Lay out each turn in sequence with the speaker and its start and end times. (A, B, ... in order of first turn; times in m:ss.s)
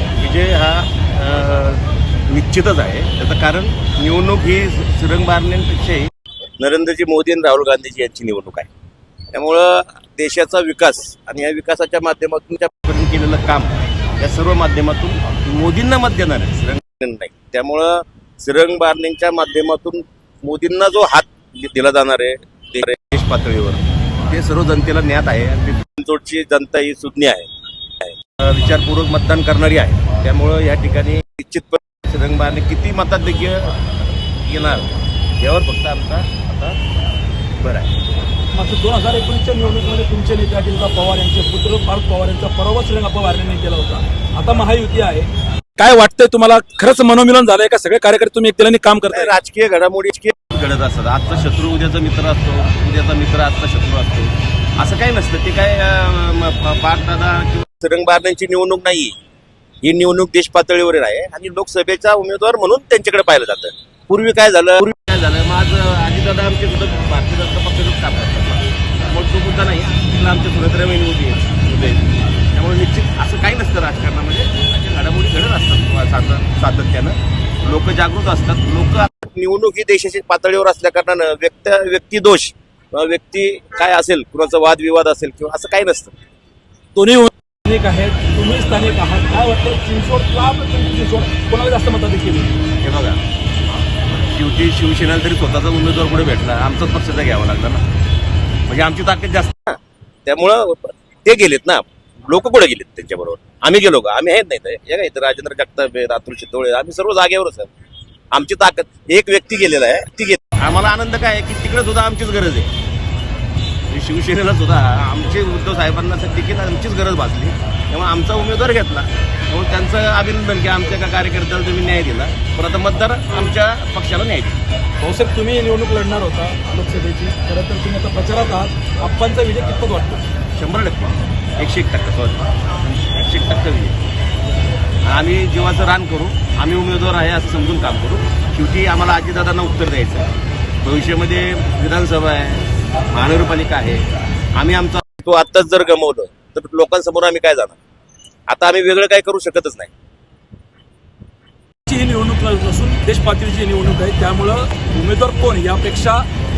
0:00.2-0:08.7 A
0:09.3-0:36.8 A
0:37.6-0:37.9 A
0:38.5-0:49.3 B
0:49.1-0:59.1 A
0:59.8-1:26.1 A
1:26.9-1:32.5 B
1:32.8-1:33.2 A
1:34.3-1:37.8 A
1:38.7-1:47.7 A
1:48.3-1:52.7 A
1:53.9-2:04.6 A
2:05.0-2:10.2 B
2:10.6-2:14.0 A
2:15.1-2:20.3 A
2:20.8-2:27.8 A
2:28.5-2:29.9 A
2:31.9-2:36.2 B